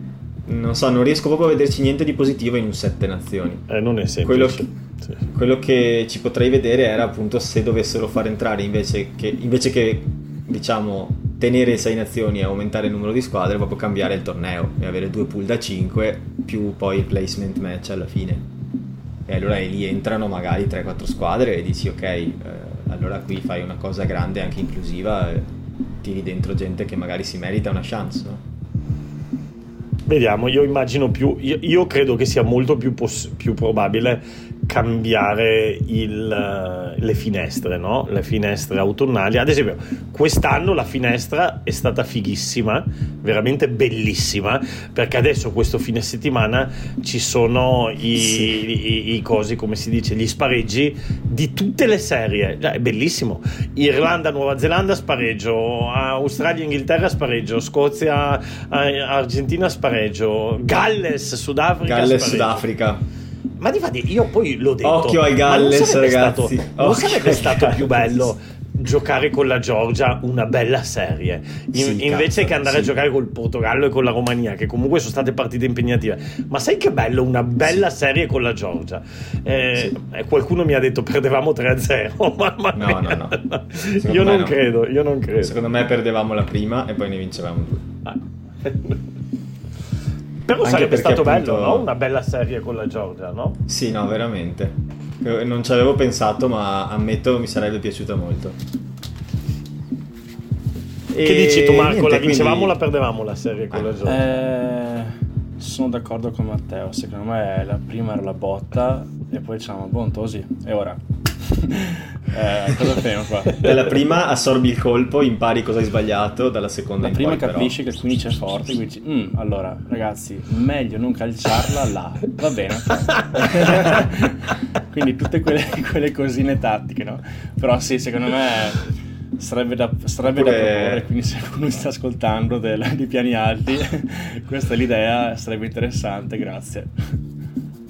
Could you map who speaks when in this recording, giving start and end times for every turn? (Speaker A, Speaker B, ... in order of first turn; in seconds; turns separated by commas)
Speaker A: 0.5-3.6, Speaker B: 3.7-5.2, Speaker A: 4.2-4.7, Speaker A: 5.3-18.5, Speaker A: 19.3-25.5, Speaker A: 26.0-28.4, Speaker B: 30.1-62.6, Speaker A: 48.2-48.6, Speaker A: 61.8-63.0, Speaker B: 63.6-85.6, Speaker A: 64.8-68.3, Speaker A: 71.7-72.9, Speaker A: 82.8-83.4, Speaker A: 84.0-84.6, Speaker A: 85.4-87.9, Speaker B: 88.0-89.0, Speaker B: 90.5-93.6, Speaker A: 90.6-91.9, Speaker A: 93.7-98.6, Speaker A: 101.1-102.8, Speaker B: 101.2-104.2, Speaker C: 104.1-113.6, Speaker A: 113.6-118.5, Speaker C: 117.0-128.9, Speaker C: 129.4-137.2, Speaker A: 130.3-131.1